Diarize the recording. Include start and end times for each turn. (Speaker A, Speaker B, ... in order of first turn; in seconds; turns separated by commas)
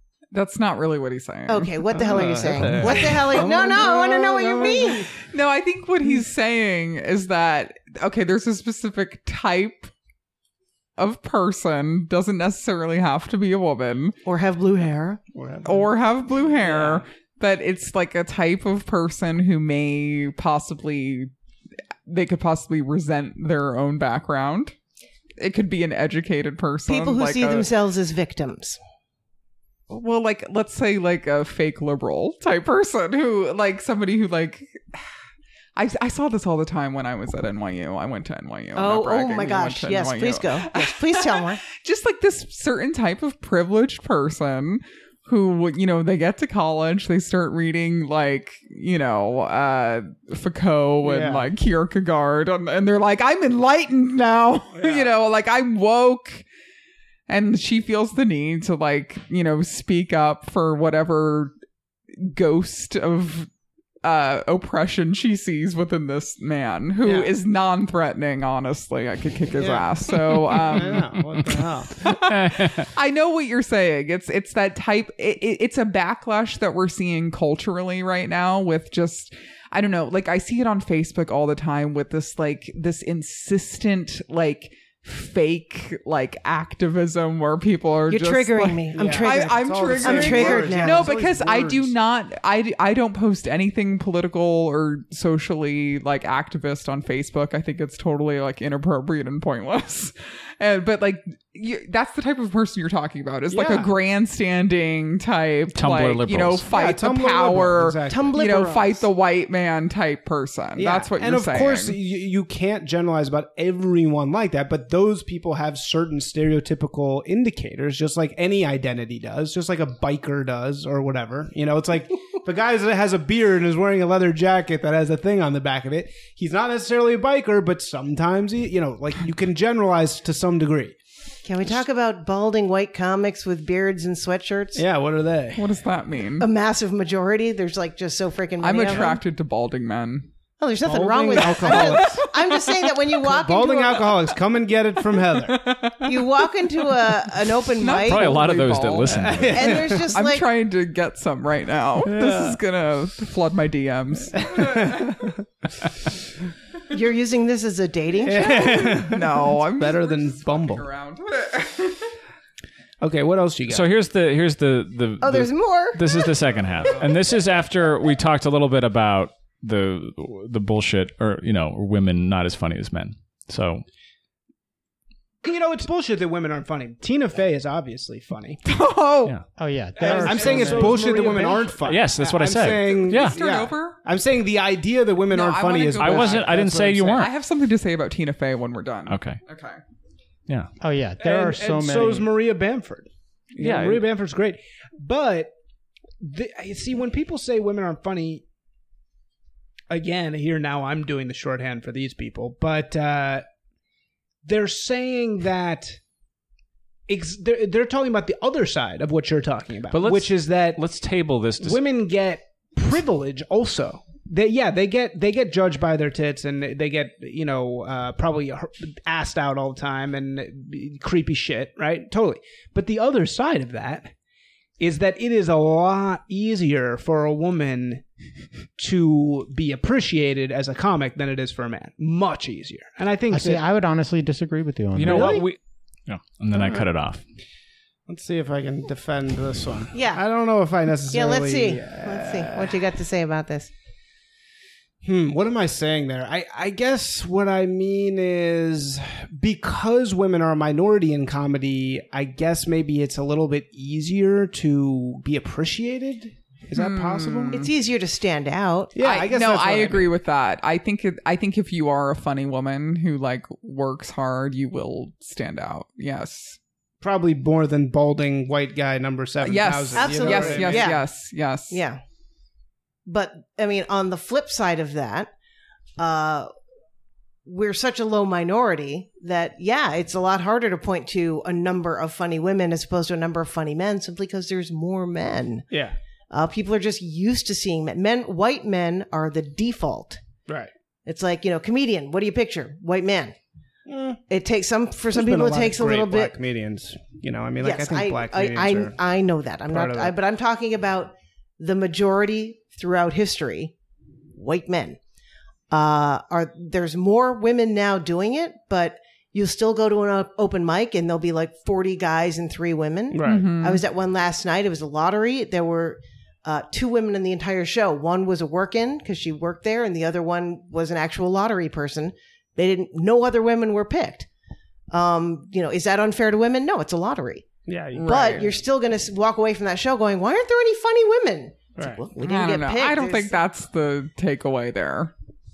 Speaker A: 0.3-3.4, Speaker B: 1.5-5.1, Speaker C: 1.9-5.1, Speaker A: 5.2-9.9, Speaker A: 11.0-14.2, Speaker B: 14.2-15.2, Speaker C: 15.3-15.9, Speaker A: 15.6-21.3, Speaker C: 16.6-17.0, Speaker A: 22.1-24.7, Speaker A: 25.4-27.7, Speaker B: 26.9-28.8, Speaker A: 29.9-35.1, Speaker A: 35.8-56.4, Speaker B: 38.8-41.6, Speaker C: 51.0-51.5, Speaker C: 54.7-55.1, Speaker A: 57.3-61.5, Speaker A: 62.1-63.5, Speaker A: 64.0-112.0, Speaker C: 67.0-67.3, Speaker C: 69.6-72.0, Speaker D: 72.0-72.9, Speaker B: 88.1-91.1, Speaker C: 88.9-91.9, Speaker C: 103.5-103.9, Speaker D: 105.7-106.7, Speaker C: 106.7-108.3, Speaker B: 108.1-109.0, Speaker C: 110.8-130.9, Speaker B: 131.4-134.8, Speaker C: 134.7-135.6, Speaker A: 135.6-136.5, Speaker B: 136.4-139.2, Speaker A: 138.6-140.3, Speaker B: 140.6-144.1, Speaker C: 140.8-142.2, Speaker A: 141.3-142.9, Speaker C: 143.2-145.8, Speaker A: 145.3-146.3, Speaker B: 146.0-148.4, Speaker A: 147.0-155.3, Speaker D: 147.9-149.8, Speaker C: 149.1-150.1, Speaker B: 149.5-150.4, Speaker C: 152.0-152.6, Speaker C: 154.3-155.4, Speaker B: 156.9-158.8, Speaker C: 158.2-160.8, Speaker A: 158.3-162.1, Speaker C: 163.0-163.9, Speaker D: 163.7-173.8, Speaker B: 165.2-166.3, Speaker C: 175.4-178.6, Speaker A: 178.6-179.3, Speaker E: 179.5-181.7, Speaker C: 180.0-187.3, Speaker D: 181.8-183.4, Speaker A: 182.8-184.0, Speaker A: 185.3-189.8, Speaker D: 186.0-187.3, Speaker D: 189.1-189.4, Speaker E: 190.8-192.3, Speaker C: 191.2-195.5, Speaker D: 193.6-194.1, Speaker C: 196.2-198.4, Speaker C: 199.9-203.4, Speaker C: 204.4-206.0, Speaker C: 207.1-210.8, Speaker D: 209.9-211.8, Speaker C: 211.6-224.1, Speaker C: 224.8-228.0, Speaker C: 228.8-233.6, Speaker E: 233.3-235.4, Speaker D: 234.9-237.2, Speaker C: 235.0-235.4, Speaker C: 236.5-236.8, Speaker C: 238.1-242.8, Speaker B: 239.9-240.2, Speaker B: 241.1-243.7, Speaker C: 245.0-257.6, Speaker A: 256.7-257.7, Speaker B: 257.5-258.9, Speaker C: 258.9-260.1, Speaker A: 259.0-266.6, Speaker C: 267.0-271.0, Speaker A: 269.4-271.8, Speaker B: 269.9-271.0, Speaker B: 271.7-272.0, Speaker B: 273.1-275.3, Speaker B: 276.0-276.5, Speaker B: 277.4-285.6, Speaker C: 285.7-285.9, Speaker B: 286.3-290.2, Speaker B: 291.1-293.3, Speaker C: 293.9-294.2, Speaker B: 294.3-296.3, Speaker C: 295.1-299.0, Speaker B: 297.6-303.7, Speaker C: 299.7-300.1, Speaker B: 304.3-305.0, Speaker B: 305.7-324.3, Speaker C: 313.1-313.5, Speaker A: 313.2-313.8, Speaker B: 324.9-327.5, Speaker C: 327.7-328.4, Speaker A: 327.9-328.5, Speaker B: 328.0-333.4, Speaker C: 331.8-332.0, Speaker A: 332.2-335.1